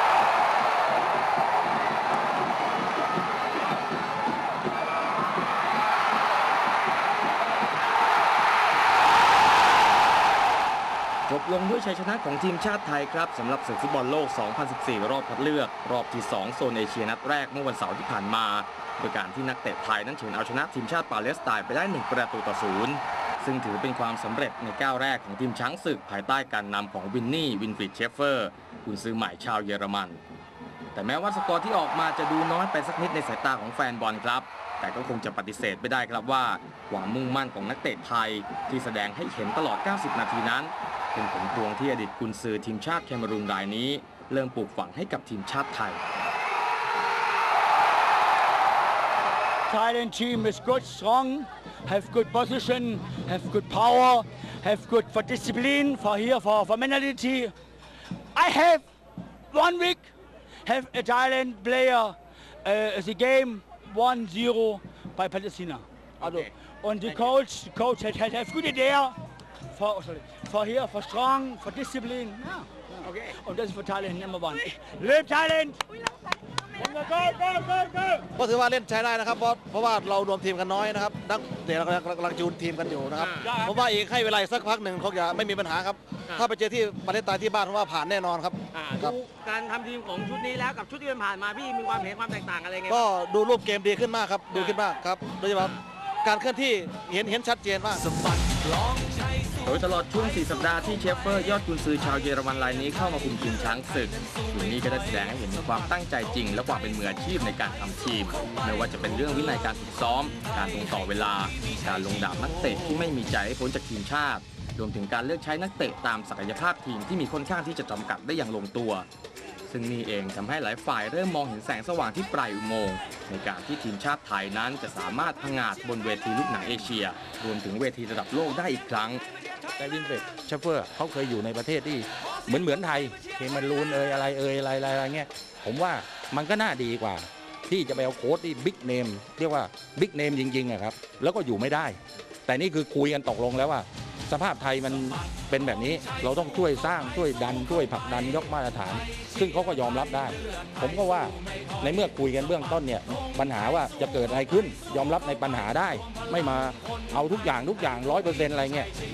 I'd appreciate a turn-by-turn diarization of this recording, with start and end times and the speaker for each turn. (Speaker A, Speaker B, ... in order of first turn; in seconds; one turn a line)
Speaker A: 11.3-30.2
Speaker A: 30.9-46.0
Speaker B: 49.7-57.5
Speaker B: 58.4-58.8
Speaker B: 59.5-60.1
Speaker B: 60.7-69.2
Speaker B: 69.7-75.8
Speaker B: 76.8-78.2
Speaker C: 78.4-89.2
Speaker D: 83.2-83.6
Speaker D: 88.7-93.0
Speaker C: 92.9-98.0
Speaker D: 94.5-94.8
Speaker A: 99.6-119.1
Speaker A: 119.7-129.2
Speaker E: 129.8-158.9